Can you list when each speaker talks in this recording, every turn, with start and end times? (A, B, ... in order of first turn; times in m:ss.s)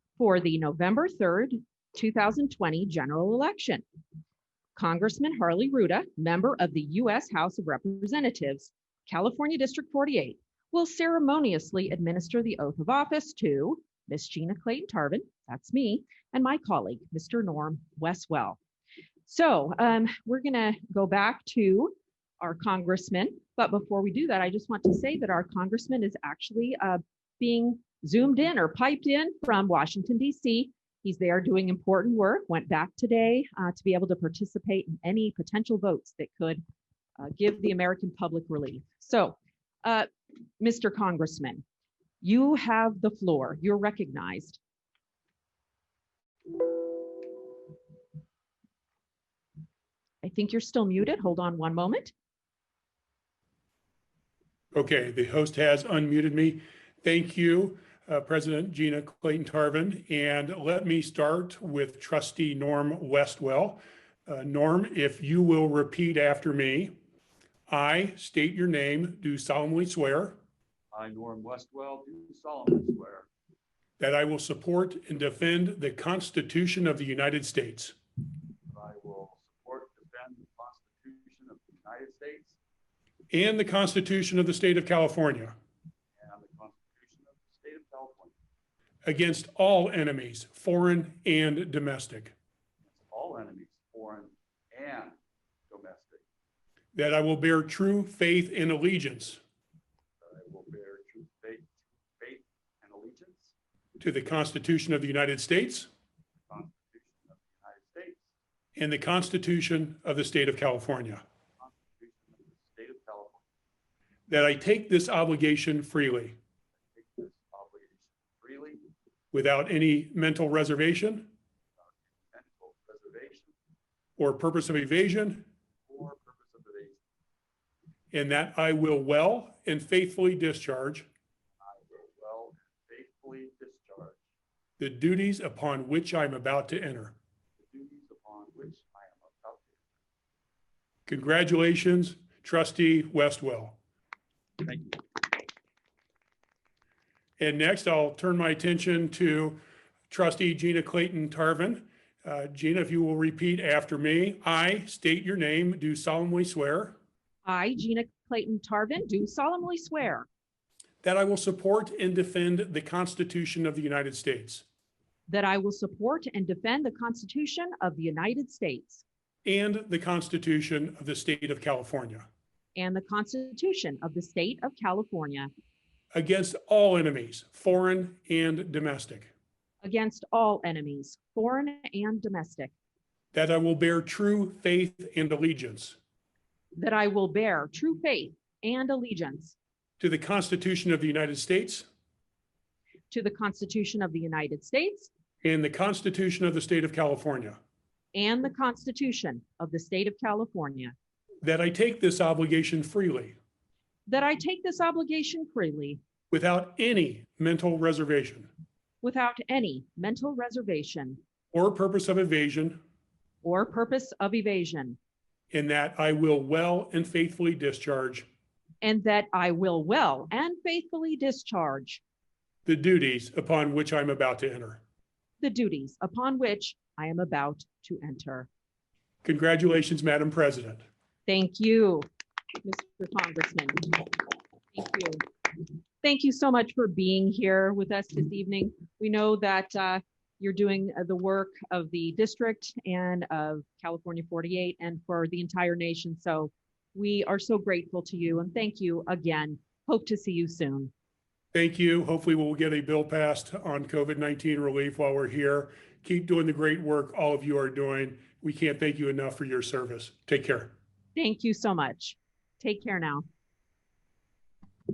0:00.2-0:03.8 A
0:04.8-0:18.6 A
0:19.2-0:36.6 A
0:37.2-0:41.6 A
0:42.2-0:44.6 A
0:50.2-0:52.1 A
0:54.7-1:07.0 B
1:07.7-1:10.4 B
1:10.9-1:13.3 C
1:14.0-1:17.9 B
1:18.7-1:22.6 C
1:23.3-1:25.5 B
1:26.2-1:28.3 C
1:29.0-1:32.3 B
1:32.8-1:35.2 C
1:35.7-1:36.2 C
1:36.9-1:39.4 B
1:40.2-1:43.5 C
1:44.0-1:45.9 B
1:46.5-1:48.2 C
1:48.8-1:51.2 B
1:51.6-1:53.4 C
1:54.3-1:56.4 B
1:56.9-1:58.9 C
1:59.3-2:01.3 B
2:01.8-2:03.5 C
2:04.2-2:05.5 B
2:05.9-2:07.0 C
2:08.1-2:11.1 B
2:11.6-2:14.2 C
2:14.8-2:17.2 B
2:17.6-2:19.8 C
2:21.1-2:23.8 B
2:24.6-2:25.4 C
2:27.4-2:29.6 B
2:30.1-2:37.0 B
2:37.4-2:40.3 A
2:41.0-2:44.6 B
2:45.3-2:49.0 A
2:49.4-2:52.3 B
2:52.8-2:55.5 A
2:56.1-2:59.3 B
2:59.8-3:02.7 A
3:03.3-3:06.0 B
3:06.8-3:09.6 A
3:10.0-3:11.9 B
3:13.1-3:15.1 A
3:15.4-3:17.6 B
3:18.1-3:20.9 A
3:21.4-3:23.4 B
3:24.1-3:26.0 A
3:26.3-3:28.5 B
3:29.0-3:31.2 A
3:31.5-3:32.8 B
3:33.4-3:35.0 A
3:35.5-3:38.3 B
3:38.8-3:42.0 A
3:42.6-3:44.8 B
3:45.4-3:48.5 A
3:49.2-3:50.8 B
3:51.3-3:52.1 A
3:52.6-3:55.3 A
3:56.0-4:10.9 A
4:11.5-4:20.7 B
4:21.1-4:23.2 A